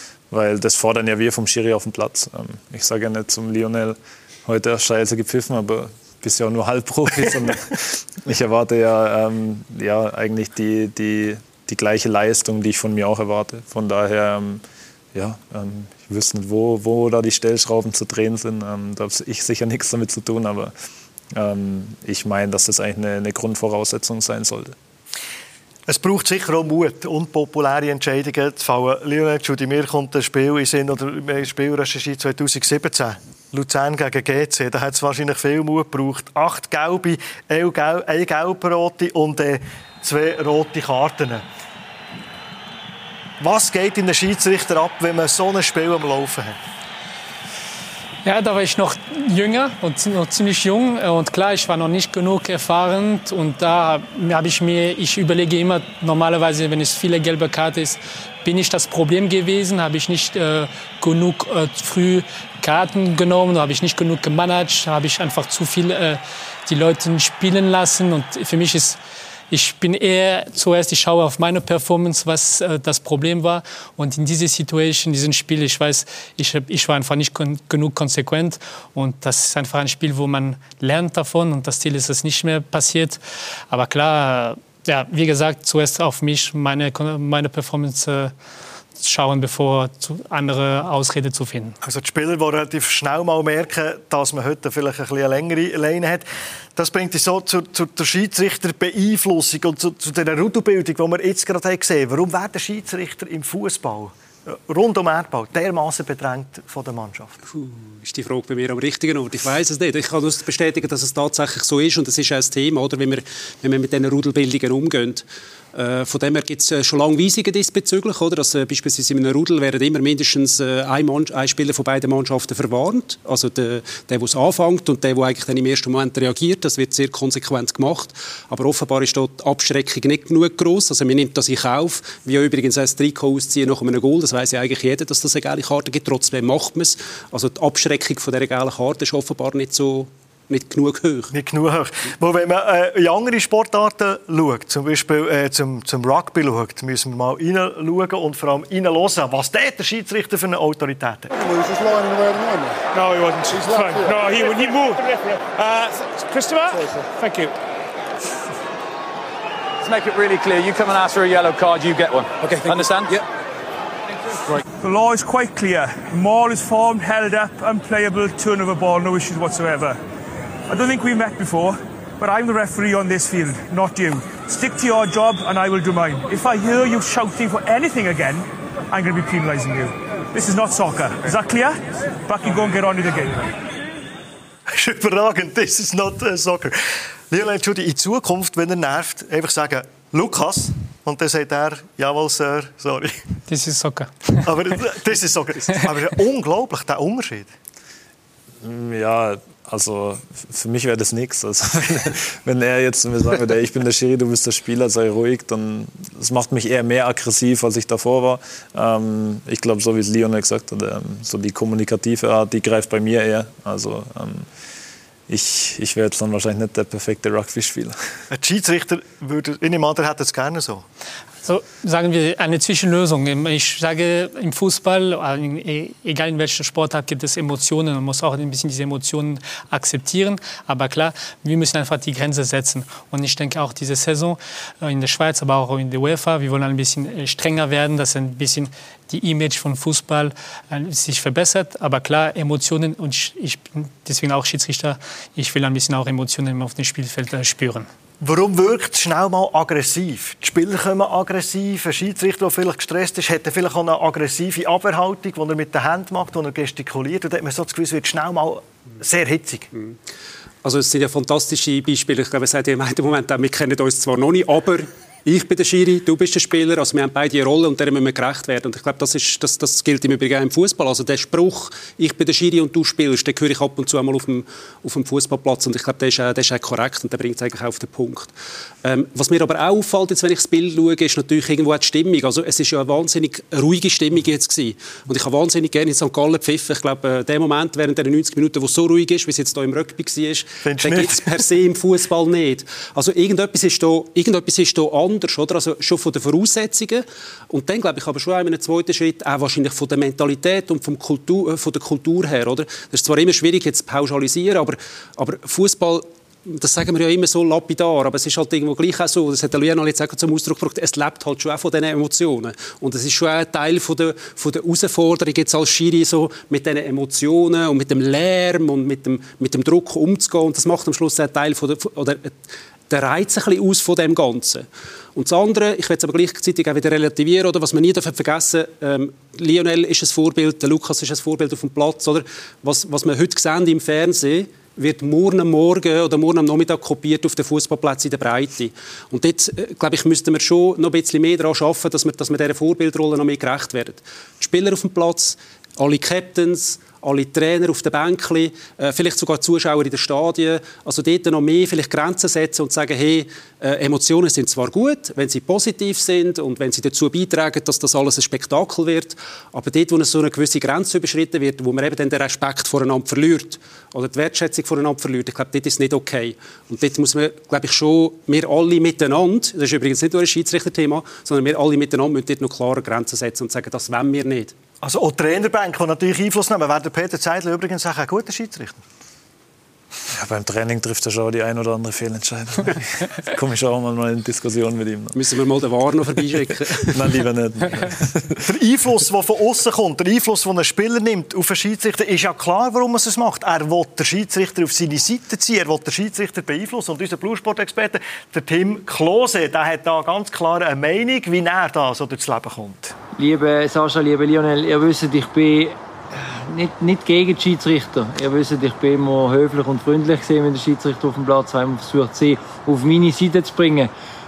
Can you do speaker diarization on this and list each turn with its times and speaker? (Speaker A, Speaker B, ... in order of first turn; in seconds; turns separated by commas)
Speaker A: 0.3-14.6, Speaker A: 15.1-20.7, Speaker A: 21.3-24.8, Speaker B: 25.9-41.4, Speaker B: 43.4-46.6, Speaker C: 48.2-69.0, Speaker C: 69.5-83.2, Speaker C: 83.7-88.3, Speaker C: 89.0-91.8, Speaker B: 91.8-96.2, Speaker B: 96.8-107.3, Speaker D: 107.5-141.3, Speaker B: 141.3-151.3, Speaker E: 151.5-157.6, Speaker F: 159.8-163.2, Speaker E: 164.8-170.0, Speaker E: 170.7-183.5, Speaker B: 184.7-186.8, Speaker B: 187.3-193.2, Speaker C: 193.5-194.5, Speaker B: 194.4-197.5, Speaker A: 198.6-214.5, Speaker A: 215.3-218.0, Speaker B: 218.3-220.8, Speaker C: 221.4-247.9, Speaker B: 248.2-259.7, Speaker D: 260.6-278.3, Speaker D: 278.8-322.4, Speaker B: 290.6-291.3, Speaker D: 322.9-374.5, Speaker B: 374.8-378.8, Speaker A: 380.1-385.2, Speaker D: 385.2-387.1, Speaker A: 386.9-388.4, Speaker B: 388.4-402.9, Speaker G: 403.2-413.9